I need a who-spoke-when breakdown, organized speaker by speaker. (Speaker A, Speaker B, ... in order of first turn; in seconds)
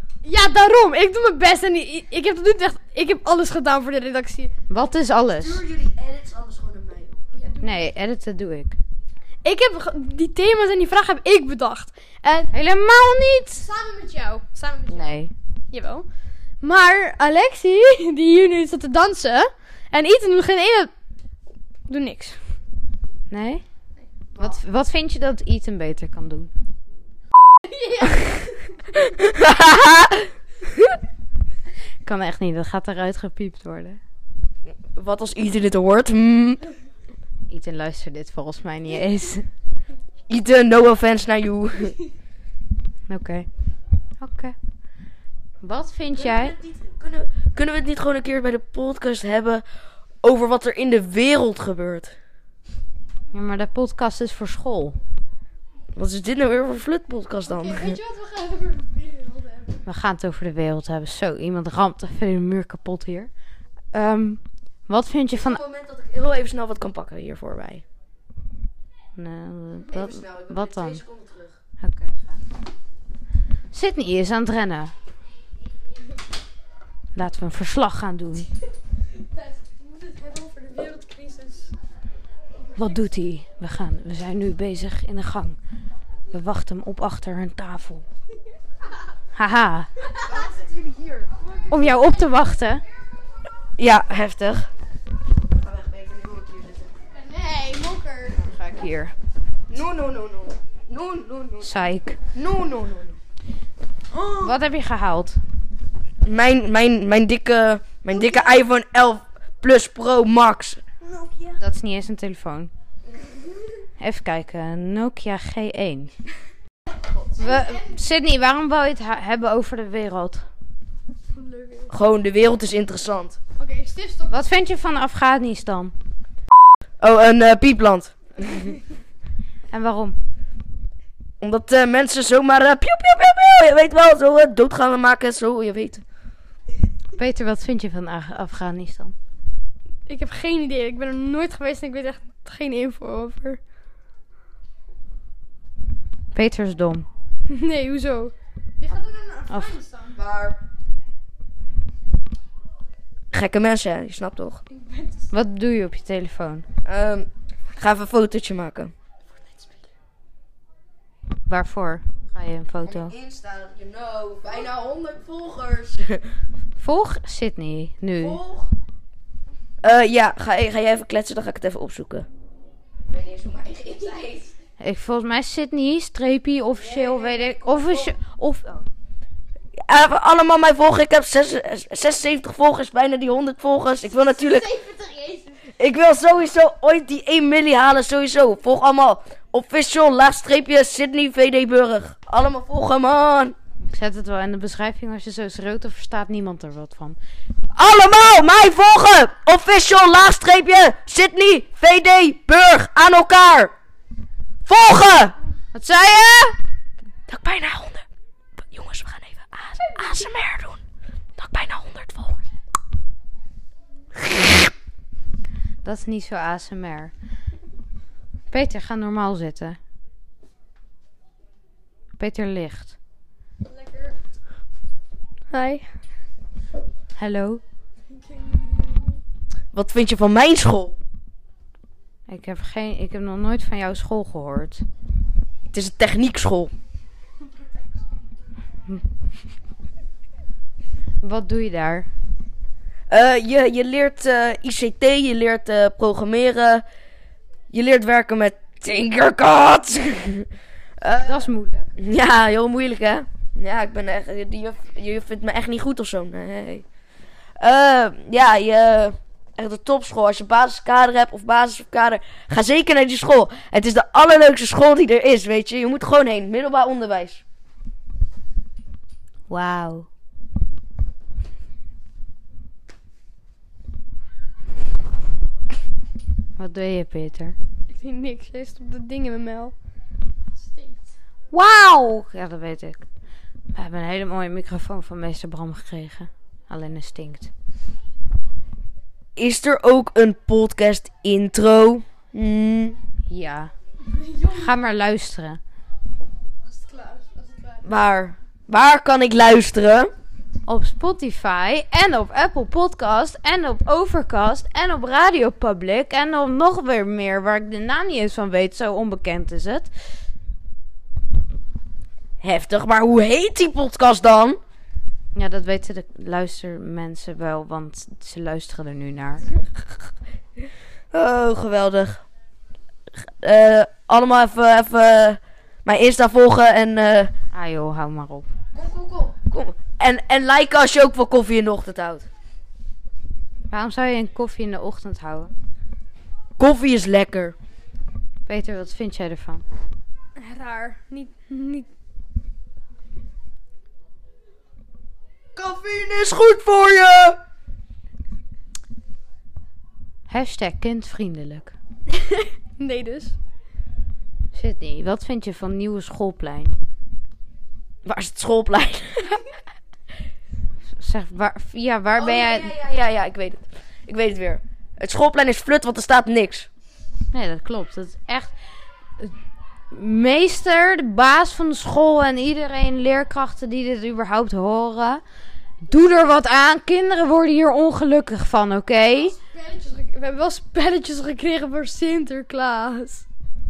Speaker A: 0.2-4.6, 7.3-7.9, 9.4-12.5, 13.6-15.2, 15.7-16.1, 16.6-20.9, 21.9-22.4, 27.6-28.6, 57.5-59.8, 79.3-81.7, 90.1-91.7, 97.1-98.4, 117.4-117.8, 121.3-121.9, 123.6-124.4, 140.1-143.6, 147.5-150.2, 154.7-155.3, 159.4-159.8, 184.1-185.7, 223.7-224.2, 225.5-225.9, 228.1-229.2, 277.9-279.7, 280.6-281.1, 294.1-294.7, 296.6-297.8, 340.4-341.9, 352.1-353.4, 379.2-383.2
Speaker B: 4.7-5.6, 7.6-8.8, 12.5-13.7, 14.9-15.3, 23.3-23.6, 24.4-26.5, 32.0-34.0, 37.5-39.5, 43.1-43.5, 44.2-44.6, 45.6-46.5, 53.3-55.0, 59.9-63.3, 63.9-65.6, 69.2-71.0, 71.8-72.3, 73.7-74.9, 77.2-78.5, 82.8-85.6, 86.3-88.0, 89.3-89.9, 91.7-92.8, 98.4-99.1, 101.6-102.2, 104.4-105.4, 111.6-112.7, 114.0-116.1, 117.4-120.5, 124.3-125.9, 129.7-130.2, 137.2-139.2, 146.3-147.1, 149.5-149.8, 155.3-156.7, 161.5-163.1, 166.8-168.4, 174.8-178.8, 193.9-197.2, 205.7-206.6, 215.8-217.1, 218.5-219.8, 222.2-223.0, 227.2-227.6, 232.3-234.8, 241.2-242.1, 251.2-251.9, 269.5-270.1, 276.6-277.6, 281.5-283.0, 283.7-287.5, 293.3-293.7, 294.5-295.6, 300.7-309.9, 315.3-319.5, 327.5-328.5, 333.7-335.5, 338.5-339.6, 350.3-351.8, 354.5-356.8, 361.0-362.7, 367.3-368.5, 369.9-375.2, 375.9-379.4
Speaker C: 5.2-7.2, 29.1-30.3, 34.8-36.6, 40.3-42.0, 46.2-49.6, 50.2-52.1, 56.0-58.0, 65.3-67.8, 69.9-71.6, 93.8-94.7, 95.6-96.9, 99.7-101.8, 102.3-103.2, 104.1-104.5, 106.2-111.5, 121.9-123.4, 127.0-128.7, 131.4-136.0, 150.1-150.6, 153.3-154.6, 156.8-158.9, 162.9-166.2, 168.2-168.7, 169.8-172.3, 173.1-174.5, 176.8-178.2, 179.9-184.7, 185.8-193.6, 197.8-203.7, 204.7-205.4, 207.3-208.1, 208.6-210.8, 211.4-212.4, 229.7-230.9, 235.7-236.7, 243.1-246.8, 247.7-250.5, 251.0-251.5, 252.0-256.9, 257.6-267.4, 289.4-293.0, 297.8-300.1, 312.4-314.6, 321.1-322.2, 323.4-327.3, 328.7-332.3, 336.6-337.6, 345.6-347.4, 358.1-359.4, 362.2-366.7